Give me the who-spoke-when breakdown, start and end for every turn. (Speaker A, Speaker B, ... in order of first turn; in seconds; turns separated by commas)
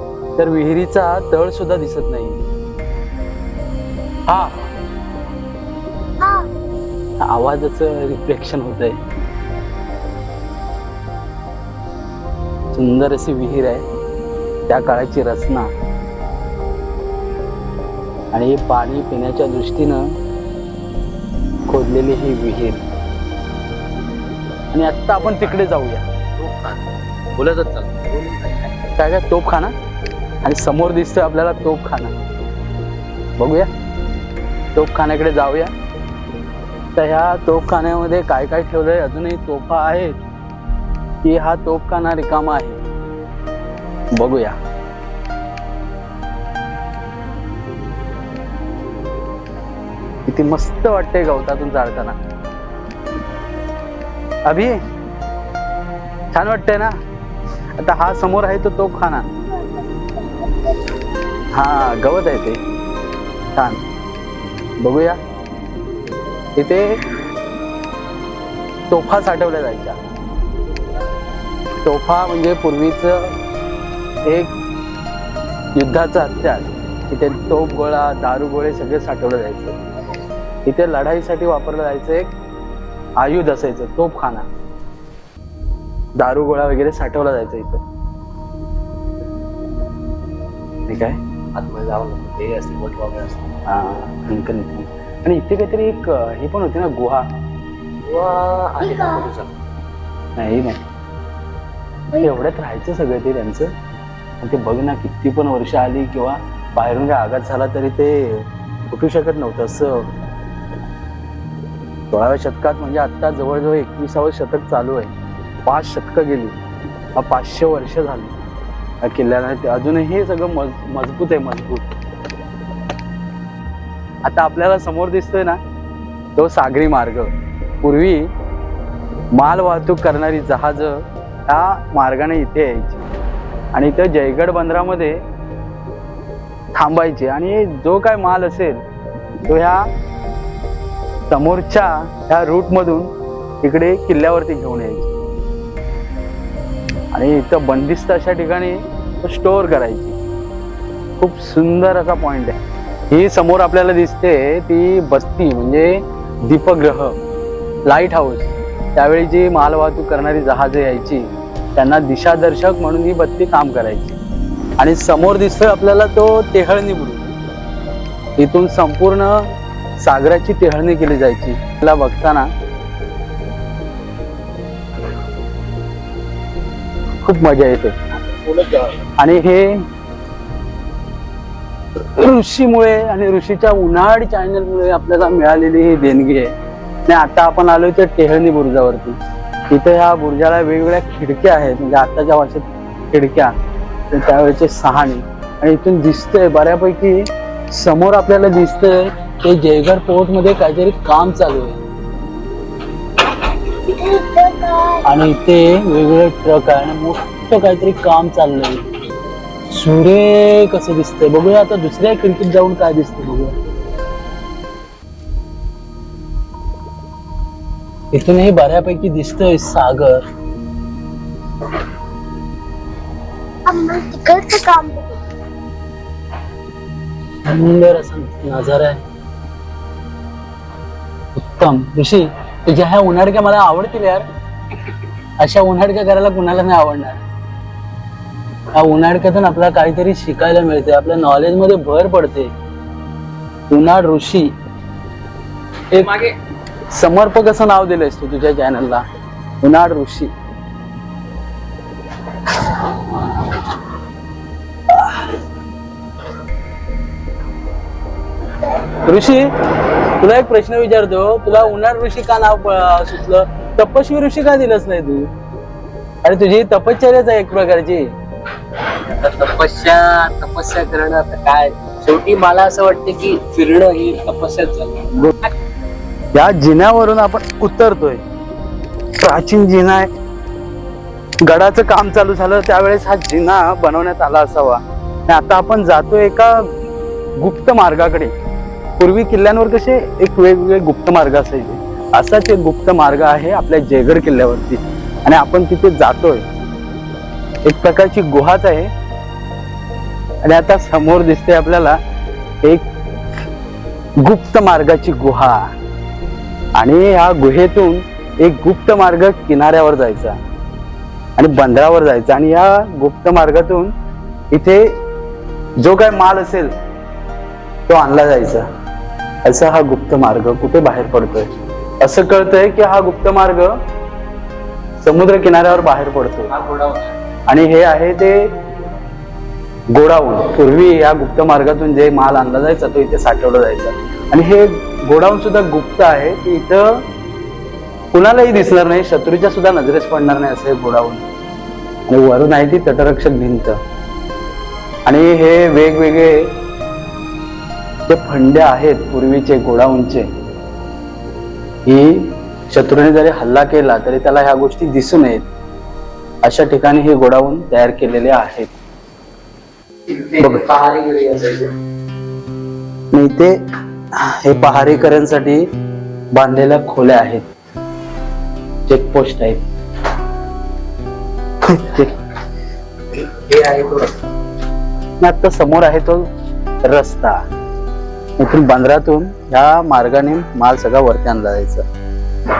Speaker A: 0.3-2.4, Speaker A: 4.3-4.7, Speaker B: 6.2-6.5, Speaker A: 7.2-9.0, Speaker A: 12.7-13.8, Speaker A: 14.7-15.7, Speaker A: 18.3-20.1, Speaker A: 21.7-22.8, Speaker A: 24.7-26.1, Speaker C: 26.4-26.7, Speaker C: 27.3-28.7, Speaker A: 28.9-29.7, Speaker A: 30.4-32.1, Speaker A: 33.4-33.7, Speaker A: 34.7-35.7, Speaker A: 37.0-40.2, Speaker A: 41.2-42.8, Speaker A: 44.1-44.6, Speaker A: 50.3-52.2, Speaker A: 54.5-54.8, Speaker A: 56.3-57.0, Speaker A: 57.8-59.3, Speaker B: 59.5-60.9, Speaker A: 61.5-62.6, Speaker A: 63.5-63.8, Speaker A: 64.8-65.2, Speaker A: 66.5-67.0, Speaker A: 68.9-70.0, Speaker A: 71.8-73.3, Speaker A: 74.2-74.5, Speaker A: 75.7-79.8, Speaker A: 80.6-82.3, Speaker A: 83.2-84.5, Speaker A: 86.2-87.8, Speaker A: 90.9-91.2, Speaker C: 91.5-93.4, Speaker A: 93.7-97.3, Speaker C: 98.0-99.5, Speaker A: 100.3-100.8, Speaker A: 102.1-103.8, Speaker A: 104.4-110.1, Speaker A: 112.1-115.1, Speaker A: 115.7-116.5, Speaker A: 117.2-118.3, Speaker A: 119.0-121.9, Speaker A: 124.2-125.6, Speaker A: 126.3-127.3, Speaker A: 127.8-128.3, Speaker A: 129.3-133.0, Speaker A: 133.7-135.2, Speaker A: 136.7-138.8, Speaker A: 139.4-139.9, Speaker A: 141.3-143.1, Speaker A: 143.6-145.2, Speaker A: 147.1-150.2, Speaker A: 151.2-152.6, Speaker A: 153.1-157.2, Speaker A: 157.8-164.2, Speaker A: 164.8-167.3, Speaker A: 168.4-169.4, Speaker A: 170.0-172.5, Speaker A: 177.2-179.8, Speaker A: 182.1-186.5, Speaker A: 187.1-189.2, Speaker A: 189.7-193.5, Speaker A: 194.1-201.8, Speaker B: 203.8-205.0, Speaker A: 205.0-208.8, Speaker A: 209.7-213.5, Speaker A: 218.1-220.2, Speaker B: 223.7-225.2, Speaker A: 227.4-229.0, Speaker A: 231.3-234.2, Speaker A: 235.4-237.2, Speaker A: 238.7-242.5, Speaker A: 243.7-244.5, Speaker A: 245.9-246.3, Speaker A: 246.9-249.0, Speaker A: 249.6-250.3, Speaker A: 252.5-253.7, Speaker A: 254.9-255.4, Speaker A: 258.7-259.5, Speaker A: 260.0-265.3, Speaker A: 266.2-268.1, Speaker C: 268.9-275.5, Speaker A: 276.3-278.2, Speaker A: 279.2-280.1, Speaker A: 281.4-286.7, Speaker A: 287.4-288.3, Speaker A: 289.0-296.4, Speaker A: 297.6-298.9, Speaker A: 300.4-302.0, Speaker A: 302.6-302.9, Speaker A: 304.2-305.7, Speaker A: 306.7-310.4, Speaker A: 311.4-313.9, Speaker A: 314.5-314.9, Speaker A: 315.8-316.7, Speaker A: 317.9-318.6, Speaker A: 319.4-323.8, Speaker A: 325.0-326.9, Speaker C: 326.6-327.0, Speaker A: 327.5-328.6, Speaker A: 329.9-337.0, Speaker A: 338.1-341.2, Speaker A: 342.1-343.8, Speaker A: 345.1-346.6, Speaker A: 348.1-350.3, Speaker A: 351.9-355.5, Speaker A: 356.4-358.7, Speaker C: 360.1-361.7, Speaker A: 360.4-360.7, Speaker A: 363.1-363.6, Speaker A: 364.1-365.7, Speaker A: 366.3-367.5, Speaker A: 368.9-369.6, Speaker A: 371.6-372.1, Speaker C: 373.1-374.2, Speaker A: 375.2-376.3, Speaker A: 376.8-377.4, Speaker A: 378.4-381.9